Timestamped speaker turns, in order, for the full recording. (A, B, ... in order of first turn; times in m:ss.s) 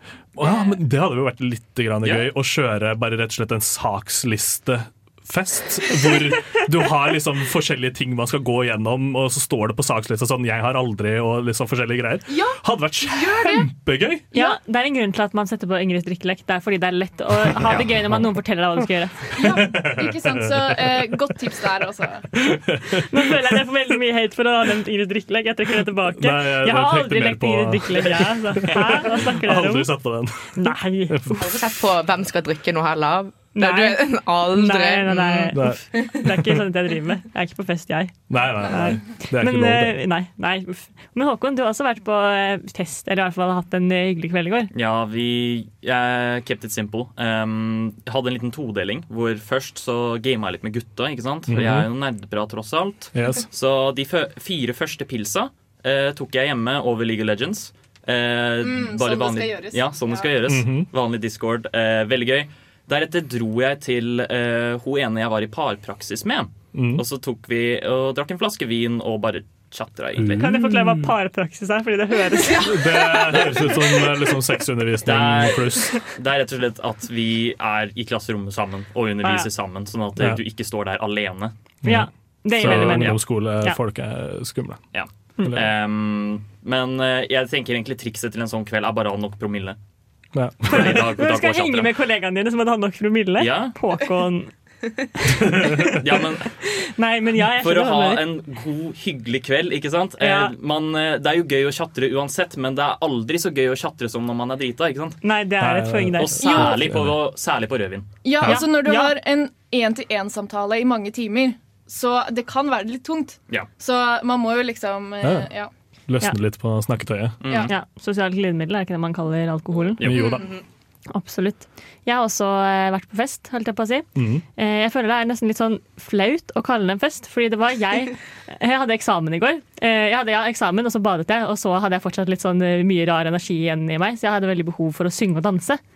0:00.3-0:14.2 A
0:00.4-0:00.7 B
0:02.0-0:02.3 C
0:12.3-0:13.7 B
0:14.3-0:19.4 D
0:19.4-0:22.3 B
0:19.4-0:21.0 A
0:22.3-0:23.0 A
0:23.1-0:31.5 D
0:26.2-0:31.8 A
0:31.4-0:36.2 E
0:33.6-0:44.7 D
0:35.5-0:36.6 A
0:38.3-0:40.0 A
0:44.7-1:10.5 C
0:51.5-0:51.9 A
0:53.1-0:53.4 A
0:58.6-1:00.3 B
1:00.5-1:00.9 A
1:06.7-1:07.0 A
1:10.2-1:11.1 A
1:10.4-1:12.7 D
1:12.6-1:16.0 A
1:13.3-1:13.8 C
1:15.0-1:21.5 C
1:19.2-1:19.5 D
1:20.2-1:20.4 A
1:21.8-1:24.9 A
1:21.8-1:23.8 D
1:22.6-1:23.2 C
1:24.9-1:29.8 C
1:30.3-1:31.1 A
1:30.7-1:34.8 D
1:30.7-1:31.9 C
1:33.4-1:33.7 C
1:36.0-1:36.5 C
1:36.9-1:38.2 D
1:37.6-1:45.2 C
1:40.2-1:40.5 D
1:45.2-1:46.7 D
1:45.6-1:47.2 A
1:46.2-1:48.1 C
1:46.4-1:46.8 B
1:48.2-1:55.7 B
1:48.4-1:49.1 D
1:55.2-1:55.5 A
1:56.1-1:57.4 A
1:57.4-1:57.7 C
1:57.4-1:57.7 B
1:57.7-2:00.4 D
2:00.0-2:00.4 A
2:00.2-2:00.6 E
2:01.1-2:15.8 D
2:04.2-2:04.4 A